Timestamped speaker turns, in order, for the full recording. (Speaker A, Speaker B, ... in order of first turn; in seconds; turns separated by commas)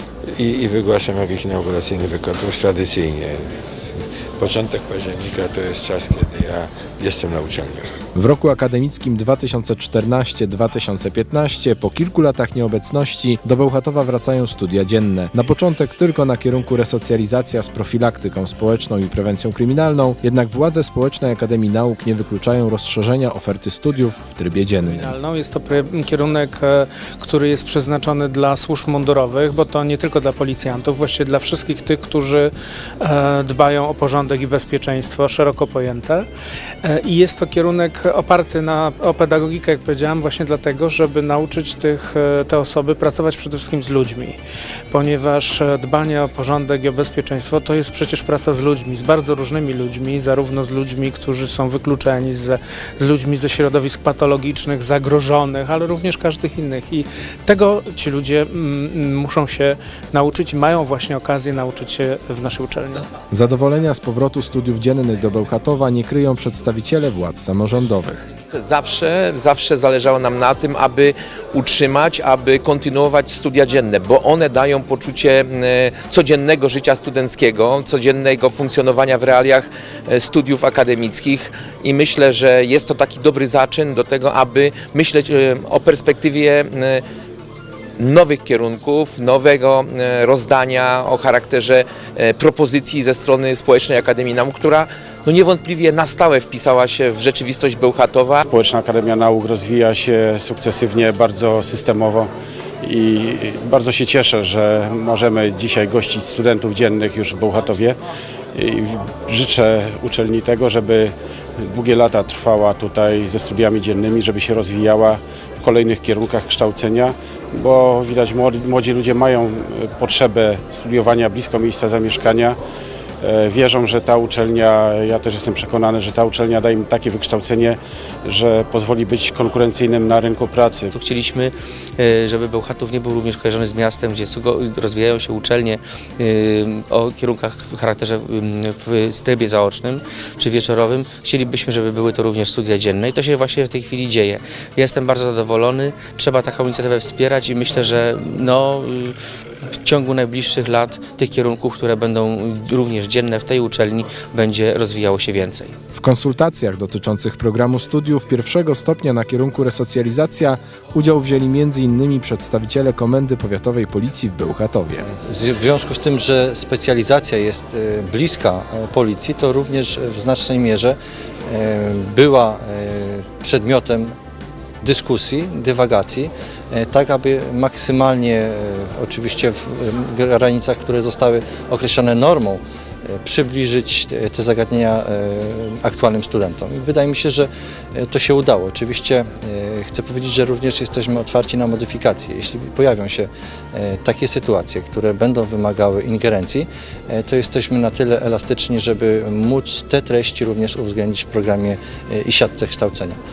Speaker A: 0.3-7.9, Speaker B: 8.1-25.1, Speaker C: 24.8-36.2, Speaker C: 36.8-44.4, Speaker C: 44.9-63.1, Speaker B: 63.3-68.2, Speaker D: 68.5-87.0, Speaker D: 88.0-98.4, Speaker E: 98.5-102.3, Speaker E: 102.8-108.0, Speaker E: 108.5-122.6, Speaker E: 123.2-130.9, Speaker F: 130.9-149.2, Speaker F: 149.8-155.7, Speaker B: 155.9-165.0, Speaker G: 165.1-170.9, Speaker G: 171.5-174.1, Speaker G: 174.8-203.2